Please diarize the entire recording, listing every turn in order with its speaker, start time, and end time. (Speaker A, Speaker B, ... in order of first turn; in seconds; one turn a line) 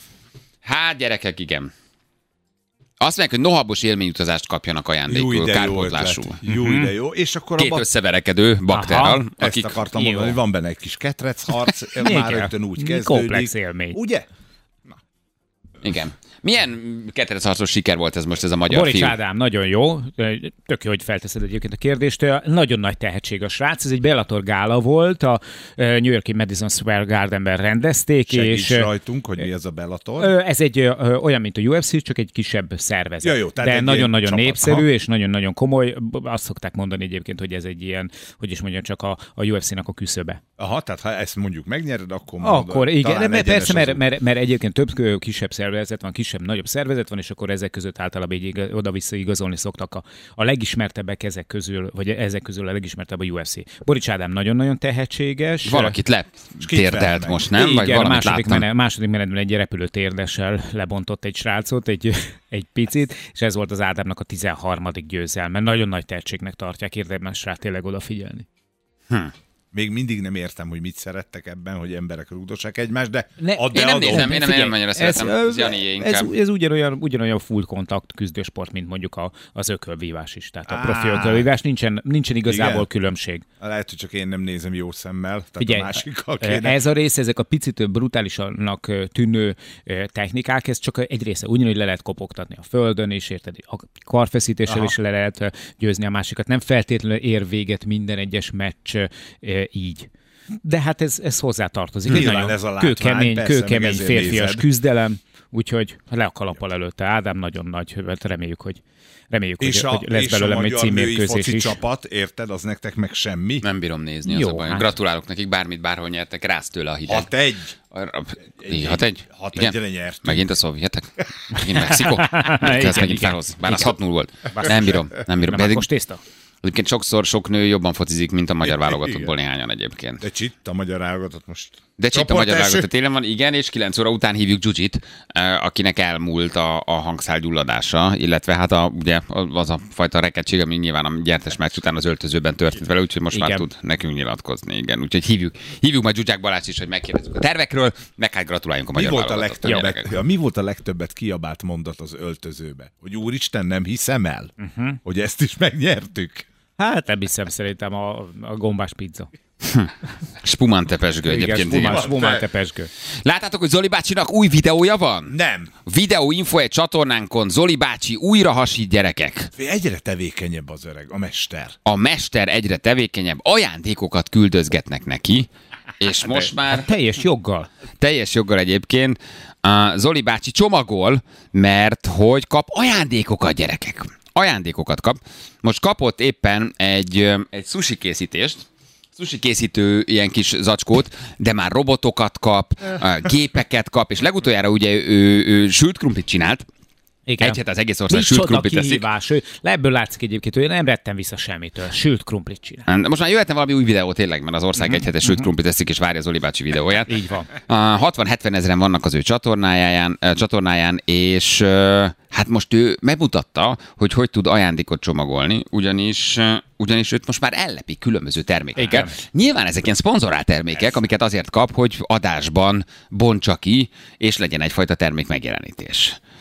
Speaker A: 0.6-1.7
Speaker A: 3.0-6.4
Speaker B: 5.1-7.9
Speaker C: 6.5-6.9
Speaker A: 7.6-9.9
Speaker C: 8.7-9.2
Speaker B: 9.4-14.3
Speaker C: 9.9-10.4
Speaker C: 12.0-14.0
Speaker A: 15.8-19.2
Speaker C: 18.7-28.9
Speaker B: 28.3-30.3
Speaker C: 30.2-40.4
Speaker B: 33.2-34.9
Speaker B: 40.6-44.0
Speaker C: 42.4-56.0
Speaker A: 55.6-58.7
Speaker B: 56.6-57.5
Speaker C: 57.5-68.5
Speaker B: 69.7-74.4
Speaker C: 73.4-83.5
Speaker A: 73.7-76.3
Speaker B: 80.7-81.5
Speaker B: 82.5-82.9
Speaker B: 83.6-86.8
Speaker C: 85.6-100.1
Speaker B: 94.7-94.9
Speaker C: 100.6-111.8
Speaker B: 102.1-104.7
Speaker B: 109.6-113.7
Speaker A: 113.6-117.3
Speaker C: 114.2-114.9
Speaker B: 117.1-117.7
Speaker A: 117.9-125.9
Speaker B: 118.6-120.5
Speaker C: 121.6-123.9
Speaker C: 124.5-124.8
Speaker C: 125.4-126.2
Speaker A: 126.6-130.2
Speaker B: 128.7-129.3
Speaker B: 130.2-132.9
Speaker A: 132.0-150.1
Speaker C: 143.3-143.7
Speaker B: 148.9-154.5
Speaker C: 149.6-149.9
Speaker C: 154.6-155.0
Speaker B: 155.1-156.5
Speaker C: 156.8-159.3
Speaker A: 159.6-159.9
Speaker A: 160.4-162.3
Speaker C: 161.3-162.9
Speaker B: 161.7-162.5
Speaker A: 163.2-165.3
Speaker B: 165.3-165.7
Speaker A: 165.9-169.5
Speaker B: 169.6-171.8
Speaker A: 171.8-175.5
Speaker A: 176.0-176.9
Speaker C: 176.3-177.7
Speaker A: 178.0-196.7
Speaker C: 197.3-202.9
Speaker A: 197.4-199.1
Speaker A: 202.9-226.2
Speaker C: 204.8-205.5
Speaker C: 207.0-207.5
Speaker C: 218.8-219.2